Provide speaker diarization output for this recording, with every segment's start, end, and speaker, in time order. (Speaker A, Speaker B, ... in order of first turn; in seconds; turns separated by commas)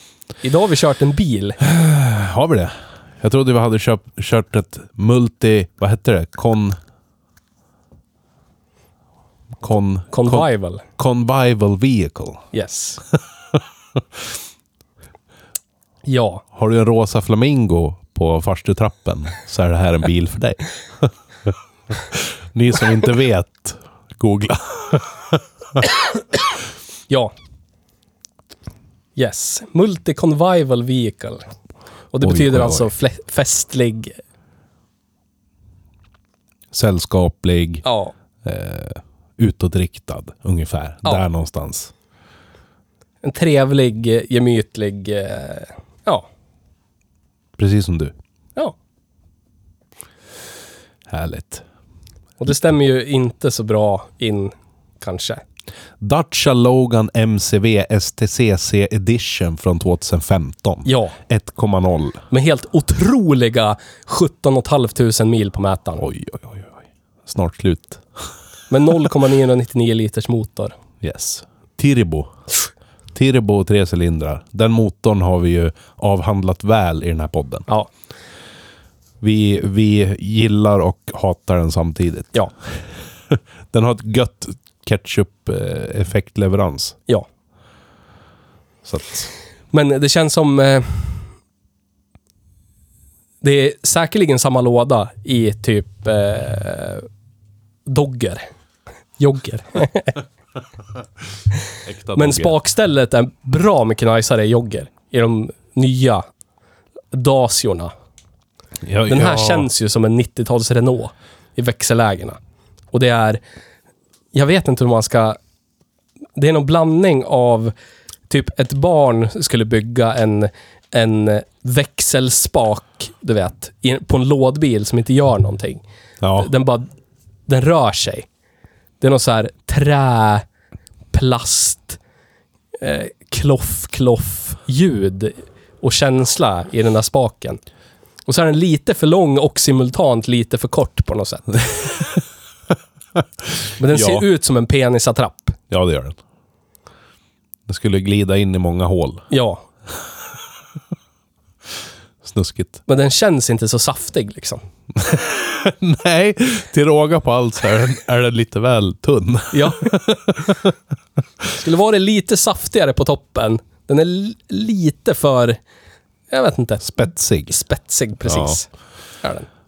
Speaker A: 0.4-1.6, Speaker B: 1.6-6.8, Speaker B: 9.6-12.4, Speaker A: 10.1-10.8, Speaker A: 12.5-13.0, Speaker A: 16.1-16.4, Speaker B: 16.5-21.1, Speaker B: 21.9-25.4, Speaker A: 29.2-31.5, Speaker A: 32.1-34.2, Speaker B: 32.2-32.9, Speaker B: 36.7-37.8, Speaker A: 37.8-38.1, Speaker B: 38.4-41.9, Speaker A: 43.2-46.3, Speaker B: 47.6-48.1, Speaker B: 51.1-51.6, Speaker A: 52.4-55.4, Speaker B: 56.0-62.2, Speaker A: 60.9-61.2, Speaker A: 62.3-66.0, Speaker B: 66.0-68.3, Speaker A: 68.7-70.8, Speaker B: 71.0-72.3, Speaker B: 73.1-77.7, Speaker B: 79.2-87.0, Speaker B: 88.8-89.3, Speaker A: 89.7-91.2, Speaker A: 93.4-97.1, Speaker A: 97.9-98.5, Speaker A: 99.2-100.2, Speaker B: 101.8-102.5, Speaker A: 102.2-106.2, Speaker A: 107.1-107.9, Speaker B: 108.8-109.7, Speaker A: 109.1-112.4, Speaker A: 112.9-113.4, Speaker A: 114.3-115.4, Speaker A: 116.4-117.7, Speaker A: 118.3-125.8, Speaker B: 126.2-126.5, Speaker A: 126.4-126.9, Speaker A: 127.5-128.3, Speaker A: 129.0-130.4, Speaker A: 131.1-132.0, Speaker A: 132.8-137.6, Speaker A: 138.3-141.8, Speaker A: 143.8-145.6, Speaker B: 143.9-144.2, Speaker B: 145.7-146.2, Speaker B: 147.7-149.2, Speaker A: 149.3-149.6, Speaker B: 152.2-152.8, Speaker A: 152.9-154.6, Speaker B: 155.0-160.7, Speaker A: 159.5-160.0, Speaker A: 161.5-165.6, Speaker A: 166.3-166.9, Speaker B: 166.8-167.5, Speaker A: 167.5-168.7, Speaker B: 168.2-168.6, Speaker A: 169.2-169.5